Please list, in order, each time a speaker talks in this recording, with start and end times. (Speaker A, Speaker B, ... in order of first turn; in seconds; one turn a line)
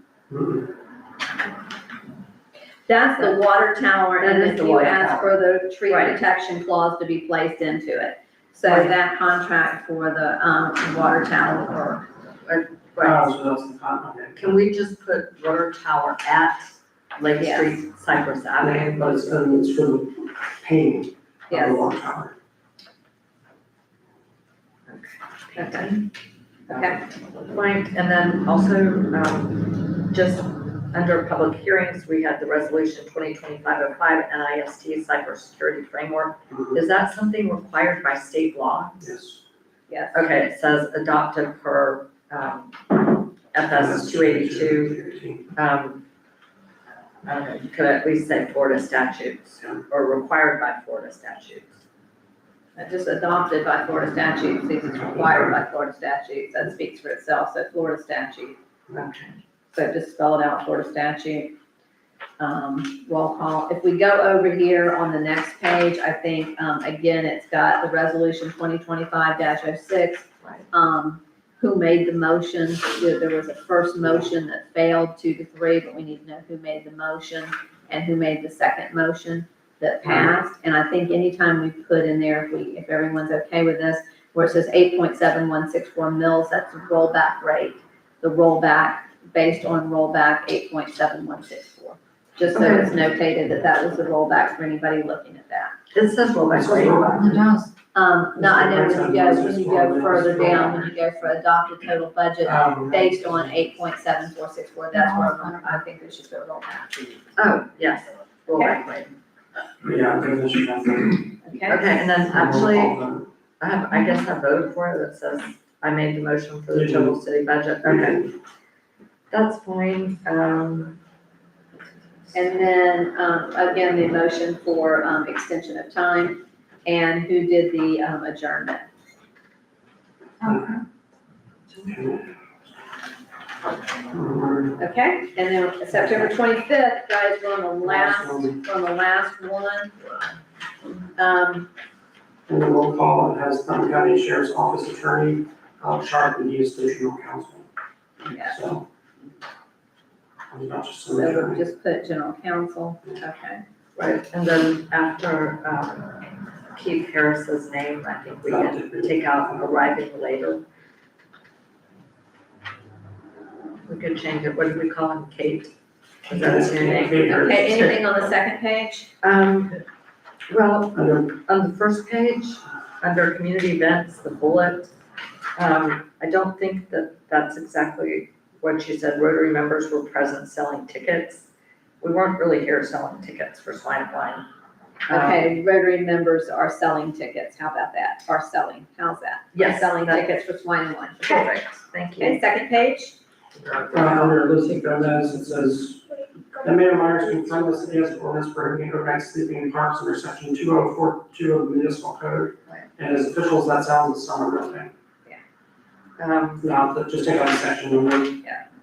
Speaker A: 0.3-0.7
Speaker B: 2.9-12.1
Speaker C: 4.2-5.3
Speaker C: 5.9-6.2
Speaker C: 8.6-8.9
Speaker C: 12.4-13.2
Speaker A: 13.0-14.6
Speaker C: 14.3-19.1
Speaker B: 17.4-17.7
Speaker A: 18.6-22.3
Speaker B: 21.5-21.9
Speaker C: 24.9-26.0
Speaker B: 25.6-25.9
Speaker C: 26.7-39.1
Speaker B: 26.7-27.0
Speaker A: 36.5-36.8
Speaker A: 39.0-39.4
Speaker B: 39.9-40.2
Speaker C: 40.1-45.0
Speaker A: 43.7-45.5
Speaker C: 45.5-46.0
Speaker C: 47.2-51.8
Speaker B: 52.8-58.6
Speaker A: 54.9-55.6
Speaker C: 58.9-59.4
Speaker B: 59.7-61.5
Speaker B: 62.4-95.7
Speaker C: 92.5-92.9
Speaker C: 95.9-97.5
Speaker A: 96.5-97.5
Speaker B: 97.9-107.2
Speaker A: 98.3-100.9
Speaker A: 102.4-103.6
Speaker C: 107.3-109.1
Speaker A: 109.8-111.3
Speaker B: 111.4-111.9
Speaker C: 111.7-113.0
Speaker A: 112.1-113.3
Speaker C: 113.6-118.2
Speaker A: 116.7-117.2
Speaker A: 117.8-118.3
Speaker C: 119.3-121.0
Speaker B: 122.3-128.8
Speaker A: 130.4-130.8
Speaker A: 131.8-132.2
Speaker A: 134.1-134.8
Speaker B: 134.8-139.9
Speaker A: 135.9-136.3
Speaker A: 137.8-138.6
Speaker B: 141.2-141.7
Speaker A: 142.5-147.7
Speaker B: 148.3-148.6
Speaker A: 148.3-148.8
Speaker A: 150.5-151.6
Speaker B: 151.2-153.6
Speaker C: 153.9-160.6
Speaker A: 158.5-159.7
Speaker C: 163.8-165.7
Speaker C: 166.2-167.9
Speaker A: 166.3-167.8
Speaker B: 167.3-169.1
Speaker C: 169.2-169.8
Speaker C: 170.5-174.9
Speaker A: 170.9-171.3
Speaker C: 175.6-181.5
Speaker C: 182.0-184.4
Speaker C: 185.1-185.5
Speaker B: 185.1-191.5
Speaker C: 189.5-190.3
Speaker C: 191.2-192.4
Speaker B: 192.2-193.2
Speaker C: 193.6-194.4
Speaker A: 193.9-196.0
Speaker A: 196.6-204.9
Speaker C: 206.2-206.7
Speaker A: 206.6-208.4